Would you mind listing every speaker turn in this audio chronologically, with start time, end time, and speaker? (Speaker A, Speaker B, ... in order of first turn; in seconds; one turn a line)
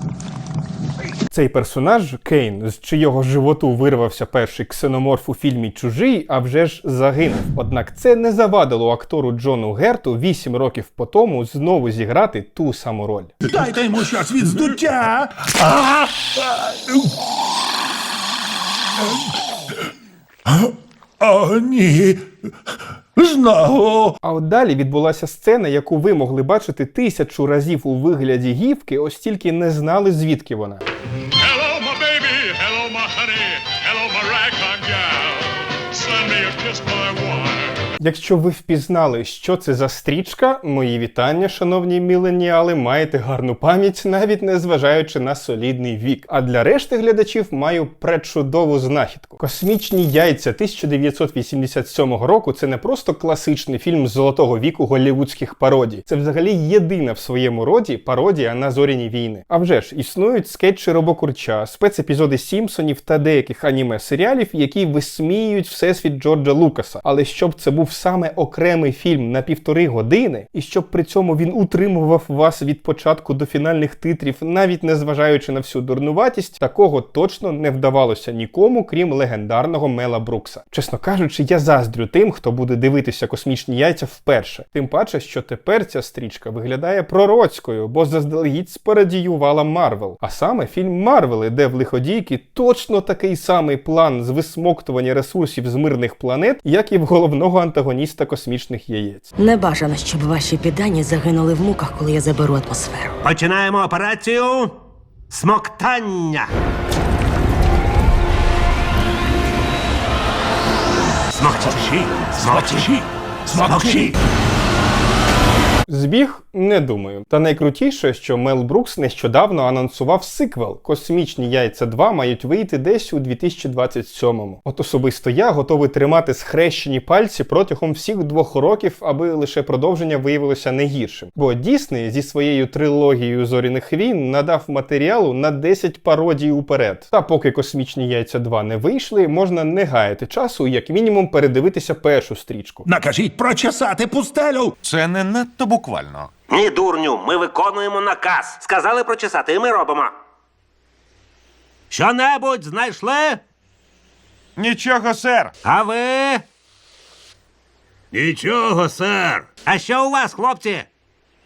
Speaker A: 1.3-13.3
Speaker B: 13.4-17.1
Speaker B: 19.0-19.3
Speaker B: 20.5-22.2
Speaker B: 23.1-24.1
Speaker A: 24.2-30.8
Speaker C: 31.3-37.9
Speaker A: 38.0-99.3
Speaker D: 99.4-103.1
Speaker E: 103.2-104.7
Speaker E: 105.3-106.5
Speaker E: 111.3-112.9
Speaker B: 112.3-114.2
Speaker E: 113.5-114.2
Speaker A: 115.9-142.9
Speaker B: 142.8-144.8
Speaker F: 144.8-146.3
Speaker E: 146.5-150.1
Speaker E: 151.9-153.4
Speaker F: 154.6-155.5
Speaker E: 155.6-156.4
Speaker E: 158.1-160.9